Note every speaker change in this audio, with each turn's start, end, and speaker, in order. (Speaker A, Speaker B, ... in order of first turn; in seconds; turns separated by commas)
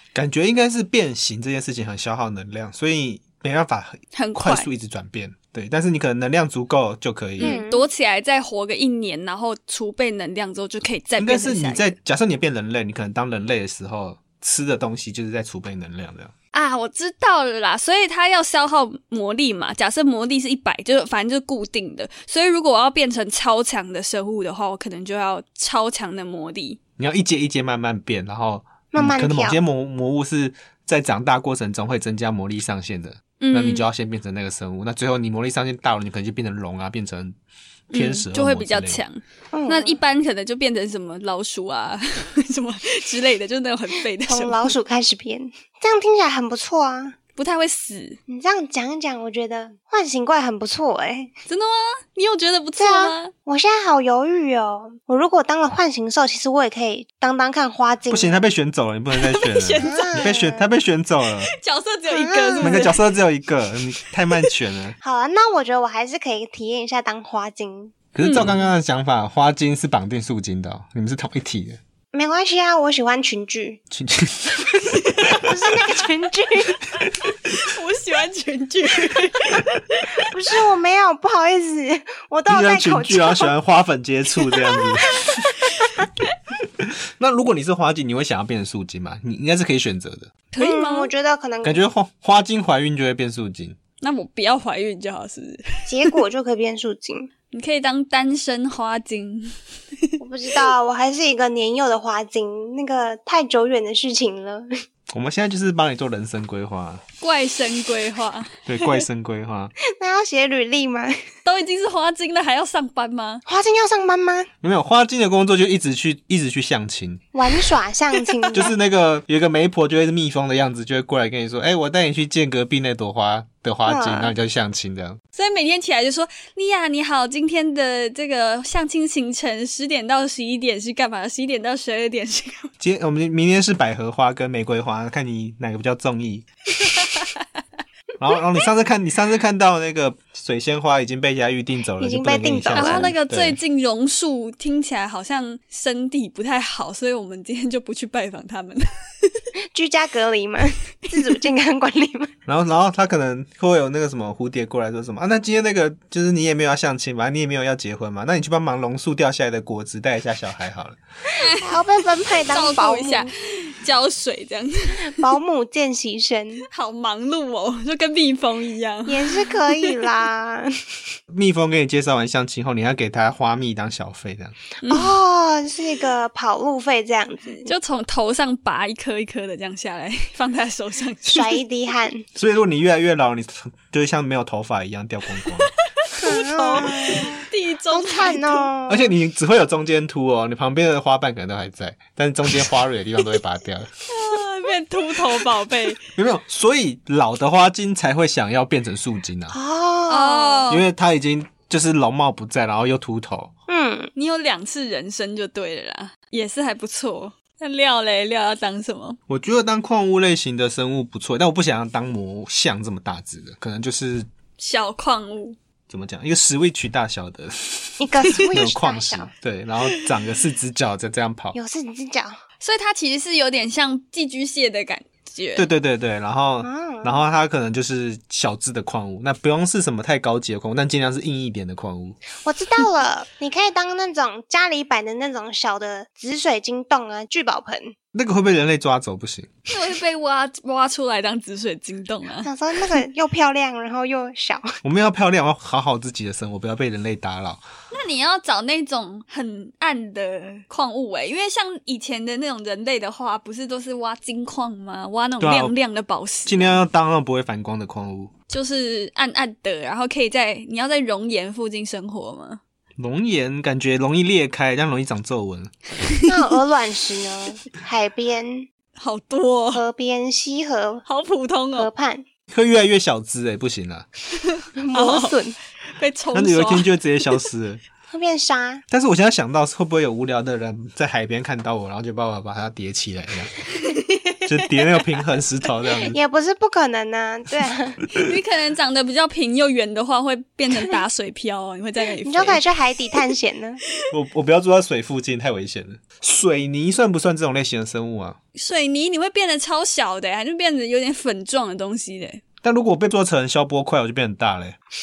Speaker A: 0.1-7.6, Speaker B: 4.1-4.7, Speaker B: 7.4-11.9, Speaker C: 7.4-7.8, Speaker A: 11.2-16.3, Speaker B: 16.5-26.8, Speaker A: 27.0-37.4, Speaker C: 28.9-29.6, Speaker B: 33.4-33.9, Speaker A: 37.9-39.0, Speaker B: 37.9-44.7, Speaker C: 39.5-40.0, Speaker C: 44.2-47.1, Speaker B: 47.4-48.2, Speaker C: 48.3-51.3, Speaker B: 51.5-53.3, Speaker C: 52.8-58.4, Speaker A: 58.1-61.5, Speaker B: 59.1-60.1, Speaker C: 59.8-60.7, Speaker B: 61.6-63.0, Speaker C: 62.1-62.9, Speaker A: 62.6-65.0, Speaker C: 65.0-68.0, Speaker A: 68.1-71.8, Speaker B: 68.2-68.6, Speaker C: 72.1-73.8, Speaker A: 73.9-75.5, Speaker B: 74.9-75.4, Speaker C: 75.3-76.8, Speaker B: 77.2-80.2, Speaker C: 80.2-83.5, Speaker A: 82.5-85.5, Speaker A: 86.6-90.3, Speaker B: 90.5-91.1, Speaker C: 90.6-91.8, Speaker A: 91.6-93.8, Speaker B: 94.0-96.1, Speaker C: 95.9-97.3, Speaker B: 97.5-99.5, Speaker C: 100.2-104.7, Speaker A: 105.1-107.0, Speaker B: 107.2-108.7, Speaker A: 108.7-109.7, Speaker C: 109.9-111.2, Speaker B: 111.4-113.4, Speaker C: 113.5-114.5, Speaker A: 114.6-117.2, Speaker C: 117.3-118.7, Speaker A: 118.5-125.2, Speaker C: 123.8-124.3, Speaker B: 125.3-132.7, Speaker A: 132.8-136.4, Speaker B: 136.8-137.4, Speaker A: 138.2-143.6, Speaker C: 142.0-143.1, Speaker B: 142.7-149.4, Speaker C: 149.7-152.3, Speaker A: 152.5-161.0, Speaker B: 161.3-165.3, Speaker C: 161.6-163.3, Speaker C: 165.1-166.6, Speaker B: 166.7-170.0, Speaker C: 169.1-170.7, Speaker A: 171.3-174.6, Speaker B: 174.8-175.1, Speaker C: 174.9-177.7, Speaker B: 177.6-181.6, Speaker C: 181.2-182.2, Speaker A: 182.3-185.7, Speaker B: 185.6-188.7, Speaker C: 186.2-189.1, Speaker A: 188.9-193.9, Speaker B: 194.1-196.0, Speaker A: 196.1-199.6, Speaker C: 199.5-200.7, Speaker B: 200.1-200.8, Speaker A: 200.7-203.5, Speaker C: 203.7-204.1, Speaker B: 204.1-209.2, Speaker A: 209.3-214.3, Speaker B: 214.6-215.6, Speaker A: 215.9-221.6, Speaker C: 218.0-219.3, Speaker C: 221.5-222.4, Speaker B: 222.6-225.7, Speaker A: 225.5-232.2, Speaker C: 226.6-227.2, Speaker C: 232.4-237.9, Speaker A: 238.1-239.5, Speaker B: 239.7-242.5, Speaker C: 242.4-244.7, Speaker A: 244.8-247.6, Speaker B: 247.9-256.8, Speaker A: 255.4-255.7, Speaker A: 256.4-258.3, Speaker B: 258.5-262.6, Speaker A: 263.0-265.7, Speaker C: 266.3-268.7, Speaker B: 269.0-269.8, Speaker C: 269.7-271.0, Speaker B: 271.0-271.9, Speaker C: 271.8-272.2, Speaker A: 272.5-274.1, Speaker C: 274.8-275.6, Speaker B: 274.9-275.4, Speaker B: 275.9-276.9, Speaker A: 276.3-277.8, Speaker C: 278.1-278.8, Speaker A: 278.9-283.5, Speaker B: 283.8-284.9, Speaker A: 284.4-286.2, Speaker C: 286.0-288.0, Speaker B: 288.1-292.6, Speaker C: 292.2-293.8, Speaker A: 294.1-298.4, Speaker B: 298.5-302.4, Speaker A: 302.6-304.8